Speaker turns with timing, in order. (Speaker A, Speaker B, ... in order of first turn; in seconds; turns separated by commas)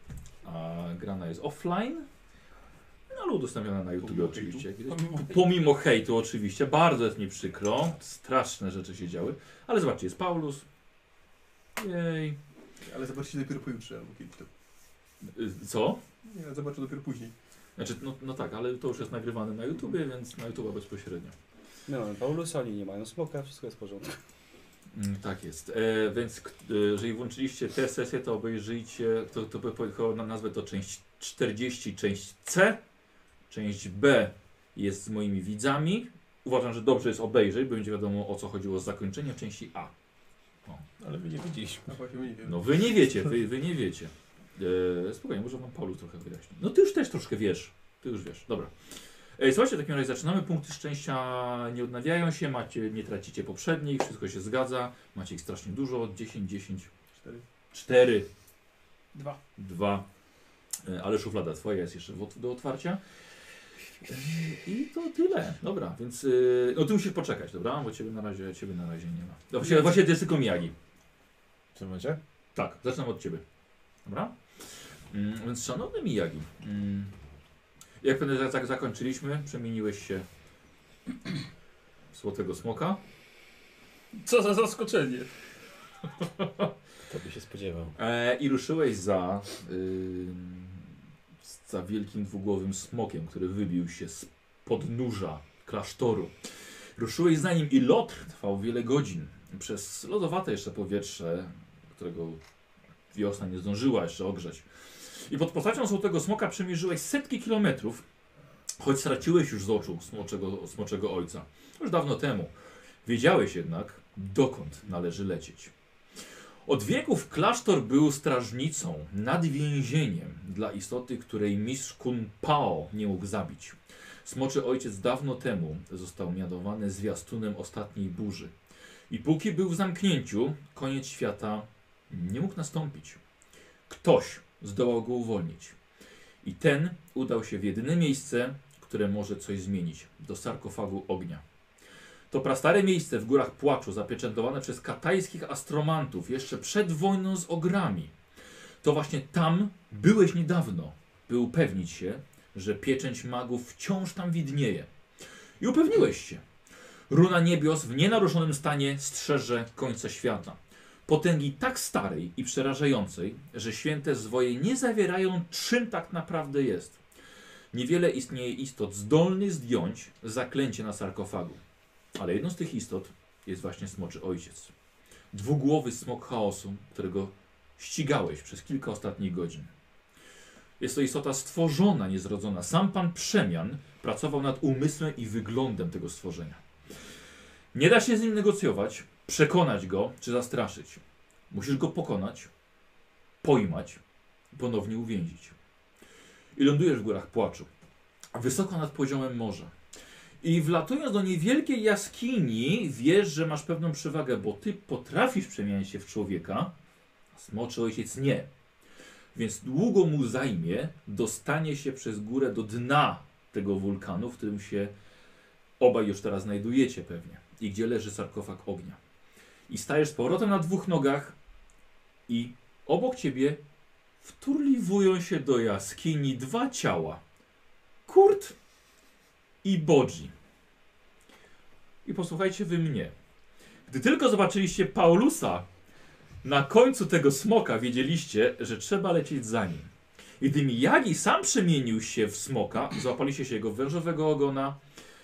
Speaker A: 0.4-2.1, Speaker A: 3.1-10.7, Speaker B: 4.0-4.7, Speaker C: 4.9-5.4, Speaker A: 11.8-12.4, Speaker B: 12.9-14.5, Speaker A: 15.2-16.0, Speaker B: 16.2-17.3, Speaker A: 17.8-21.4, Speaker D: 21.9-24.2, Speaker A: 24.9-32.8, Speaker A: 33.5-39.9, Speaker E: 41.0-41.9, Speaker B: 41.9-42.7, Speaker A: 42.4-48.7, Speaker A: 49.4-56.9, Speaker B: 57.1-57.4, Speaker A: 57.7-58.3, Speaker C: 59.1-59.4, Speaker A: 59.6-60.1, Speaker A: 60.8-63.0, Speaker A: 64.1-70.7, Speaker E: 71.8-72.2, Speaker A: 72.5-73.4, Speaker A: 74.0-77.1, Speaker A: 78.0-80.2, Speaker A: 82.1-83.0, Speaker C: 84.1-85.3, Speaker A: 86.2-86.7, Speaker E: 87.1-87.9, Speaker A: 88.0-96.3, Speaker A: 97.0-102.4, Speaker A: 103.1-108.0, Speaker A: 108.8-112.5, Speaker A: 113.0-115.7, Speaker A: 116.7-128.5, Speaker A: 129.1-133.2, Speaker A: 133.9-135.8, Speaker A: 136.4-141.4, Speaker A: 142.3-148.1, Speaker A: 148.8-154.9, Speaker A: 155.6-156.4, Speaker A: 157.1-167.0, Speaker A: 167.7-171.6, Speaker A: 172.2-174.7, Speaker A: 175.3-179.7, Speaker A: 180.8-186.6, Speaker A: 187.7-192.5, Speaker A: 193.4-194.0, Speaker A: 194.5-195.6, Speaker A: 196.6-197.7, Speaker A: 198.3-199.7, Speaker A: 200.4-206.7, Speaker A: 207.3-208.5, Speaker A: 209.3-214.9, Speaker A: 215.8-219.0, Speaker A: 219.7-221.4, Speaker A: 222.3-223.6, Speaker A: 224.2-227.2, Speaker A: 228.1-228.6, Speaker A: 229.6-230.3, Speaker A: 232.1-233.1, Speaker A: 233.9-235.7, Speaker A: 236.4-244.8